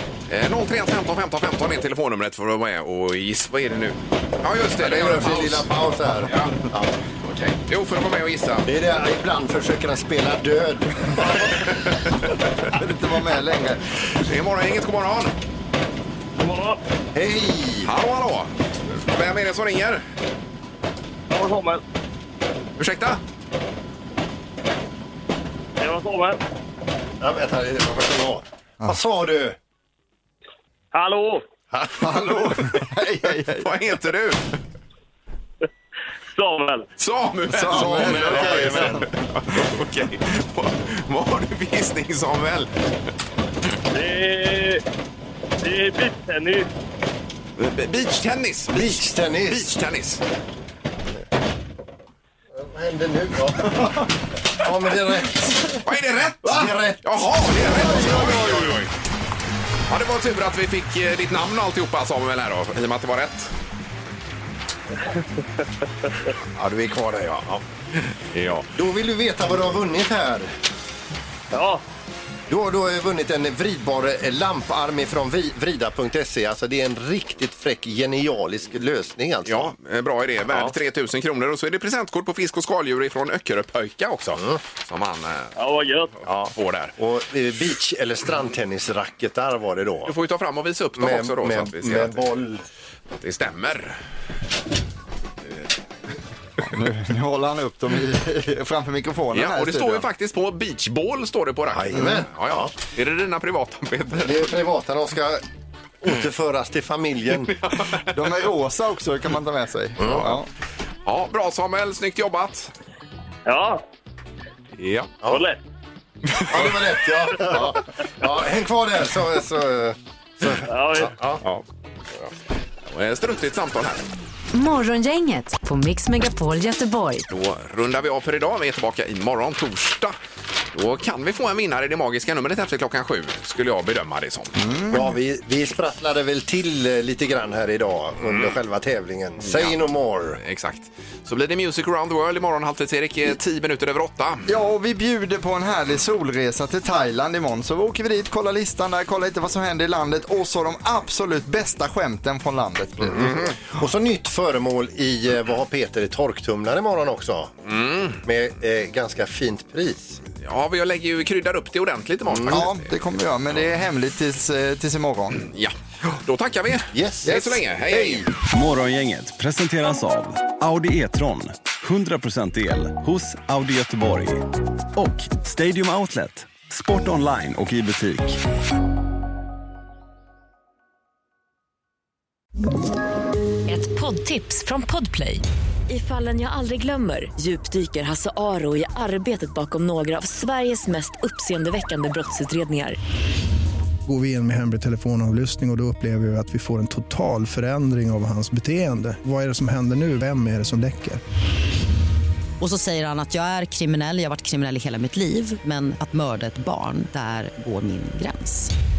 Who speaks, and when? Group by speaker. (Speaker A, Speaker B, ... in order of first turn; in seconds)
Speaker A: 0.3-6.5, 7.2-8.7, 11.5-12.1, 14.1-15.3, 17.8-20.0, 22.8-23.2, 33.6-34.6, 37.0-42.7, 47.6-50.2, 55.8-58.9, 59.9-63.5, 68.3-68.7, 79.5-85.5, 86.5-87.0, 90.1-92.2, 93.2-94.0, 99.3-104.5, 107.5-108.0, 111.1-112.7, 114.8-115.2, 116.3-116.7, 122.8-124.1, 127.3-130.2, 130.7-134.6, 139.4-139.8, 140.3-144.5, 153.2-153.5, 157.7-158.2, 160.4-162.9, 165.4-168.3
Speaker B: 4.8-7.0, 8.7-11.5, 17.1-17.9, 27.2-29.6, 31.7-32.1, 48.7-49.7, 52.5-55.8, 56.4-58.5, 66.5-67.6, 68.7-70.5, 72.5-79.7, 86.2-90.1, 91.0-92.7, 101.7-102.7, 104.2-105.4, 106.0-107.5, 110.0-110.3, 116.5-121.4, 134.9-140.4, 153.2-157.5, 158.2-160.2, 162.3-162.6, 166.9-167.3
Speaker C: 12.7-13.8, 32.0-33.7, 37.5-39.1, 96.7-100.0, 108.1-110.5, 134.6-135.1, 144.5-153.3, 162.5-165.4, 167.3-168.3
Speaker D: 16.4-16.8, 21.3-21.8, 25.8-26.4, 30.9-31.4, 36.3-36.9, 43.9-44.8, 45.6-46.7, 71.5-71.8, 85.6-86.1, 113.5-113.8, 115.2-115.6, 120.7-121.1
Speaker E: 124.5-127.2
Speaker F: 168.4-178.4
Speaker G: 183.7-193.0
Speaker H: 194.1-201.2
Speaker I: 202.6-208.7